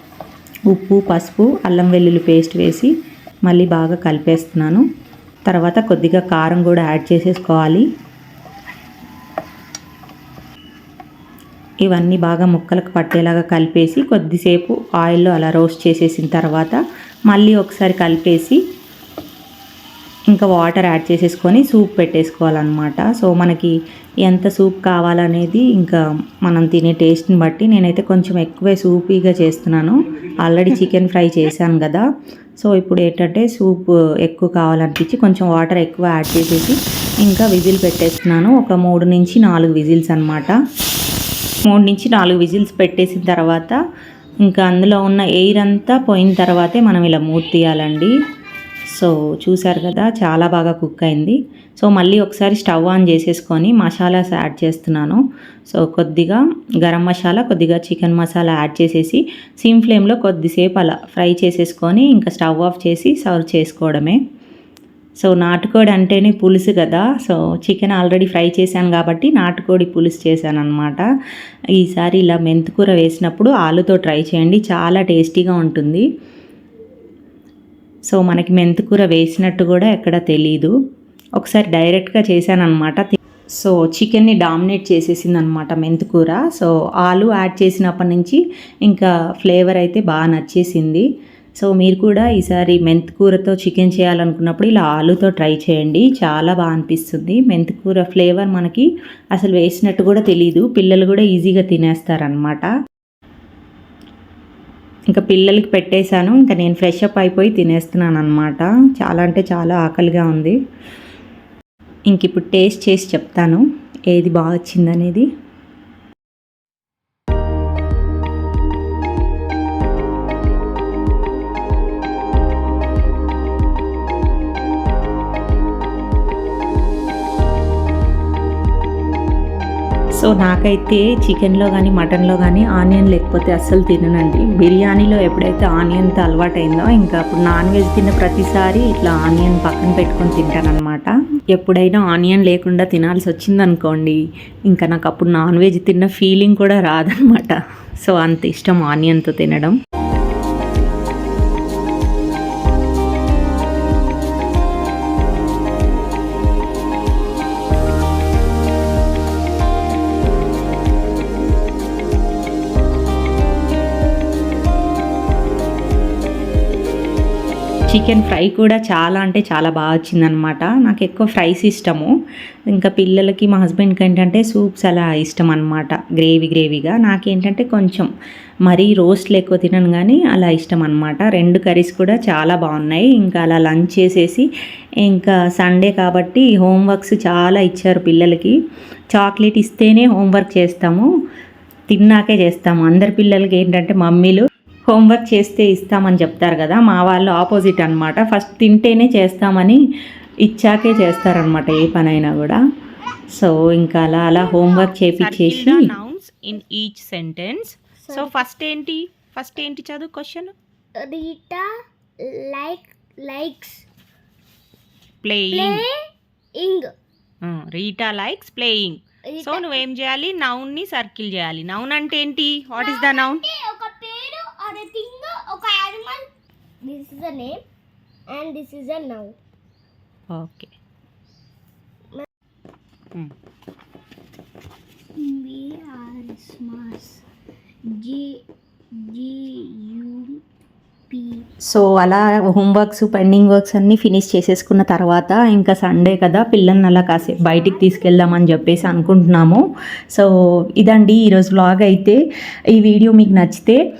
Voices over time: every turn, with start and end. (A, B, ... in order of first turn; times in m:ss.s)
0:00.7-0:02.9 A
0:03.4-0:04.8 A
0:05.5-0:07.8 A
0:11.8-0:18.6 A
0:20.3-0:32.0 A
0:32.6-0:40.6 A
0:41.6-0:43.8 A
0:44.4-0:48.1 A
0:48.9-1:04.2 A
1:05.2-1:11.1 A
1:11.8-1:16.0 A
1:18.1-1:20.7 A
1:21.4-1:31.0 A
1:31.6-1:42.7 A
1:45.1-1:50.6 A
1:52.1-1:55.3 A
2:10.2-2:29.8 A
2:47.9-2:52.1 A
2:52.7-2:58.1 A
2:58.6-3:04.5 A
3:05.0-3:08.5 A
3:09.1-3:11.1 A
3:11.9-3:19.8 A
3:20.4-3:22.6 A
3:23.3-3:26.0 A
3:24.5-3:24.9 B
3:25.8-3:27.7 C
3:28.0-3:28.4 B
3:28.1-3:28.4 A
3:28.2-3:28.9 C
3:29.0-3:30.5 A
3:31.0-3:31.7 B
3:32.2-3:33.8 B
3:35.4-3:35.8 A
3:35.5-3:36.0 B
3:36.6-3:36.9 B
3:37.4-3:43.3 A
3:39.3-3:39.8 B
3:42.7-3:46.2 B
3:46.8-3:47.6 B
3:48.3-3:49.4 B
3:50.3-3:50.7 A
3:55.2-3:57.2 B
3:58.0-3:58.3 B
3:59.0-4:00.4 B
4:01.1-4:01.4 B
4:01.7-4:12.2 A
4:07.1-4:09.1 B
4:12.7-4:13.8 A